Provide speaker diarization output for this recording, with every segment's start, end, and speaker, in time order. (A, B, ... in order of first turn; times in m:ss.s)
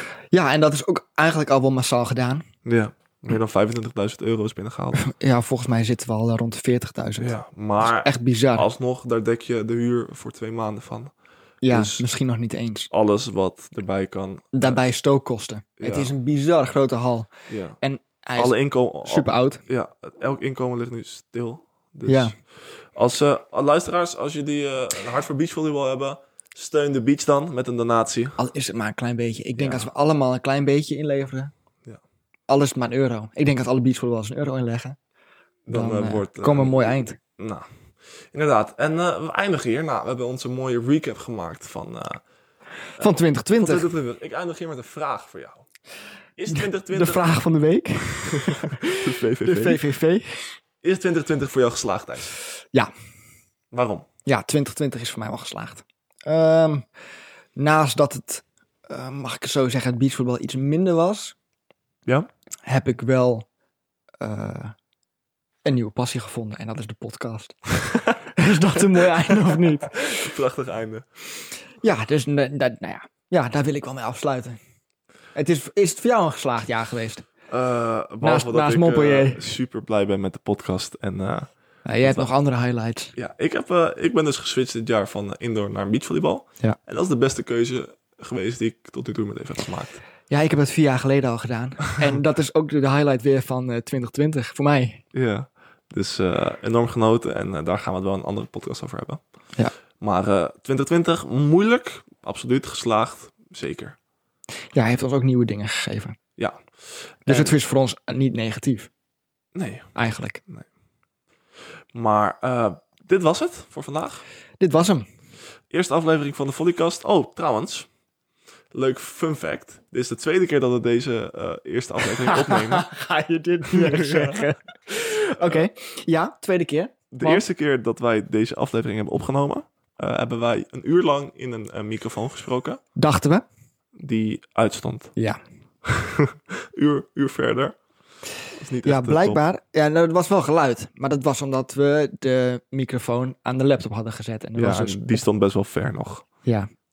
0:00.3-0:02.4 A
0:02.6-0:05.1 B
0:05.0-0:08.7 A
0:07.2-0:11.1 B
0:11.6-0:12.9 A
0:11.7-0:12.0 B
0:12.9-0:14.8 B
0:14.5-0:17.3 A
0:15.8-0:16.1 B
0:17.5-0:17.8 B
0:17.8-0:19.6 A
0:18.4-0:28.4 B
0:22.1-0:22.4 A
0:28.4-0:31.5 A
0:29.6-0:29.9 B
0:32.5-0:35.0 A
0:35.7-0:37.7 B
0:35.7-0:37.2 A
0:38.3-0:42.2 B
0:43.0-0:43.9 A
0:43.0-0:45.7 B
0:46.4-0:47.4 B
0:46.9-0:50.6 A
0:48.3-0:49.9 B
0:50.8-0:52.4 B
0:53.7-0:54.1 B
0:54.3-0:56.9 A
0:57.6-1:01.4 A
1:02.7-1:03.5 A
1:04.2-1:04.7 A
1:05.6-1:07.7 A
1:08.3-1:10.3 A
1:09.2-1:11.1 B
1:11.8-1:14.6 A
1:15.3-1:17.3 A
1:17.5-1:21.5 B
1:18.2-1:19.5 A
1:21.9-1:23.1 A
1:23.2-1:30.0 B
1:30.3-1:35.0 A
1:35.1-1:39.2 B
1:40.0-1:44.0 B
1:44.7-1:46.2 A
1:46.4-1:47.6 B
1:47.3-1:48.9 A
1:49.5-1:49.9 B
1:50.0-1:50.4 A
1:51.9-1:54.3 B
1:54.6-1:55.1 A
1:55.7-1:57.9 B
1:58.7-2:02.9 B
2:02.2-2:07.4 A
2:03.7-2:04.5 B
2:05.4-2:05.7 B
2:07.1-2:12.8 B
2:13.0-2:13.4 A
2:14.0-2:15.1 B
2:15.8-2:17.8 B
2:18.6-2:19.4 B
2:18.8-2:25.1 A
2:24.6-2:26.3 B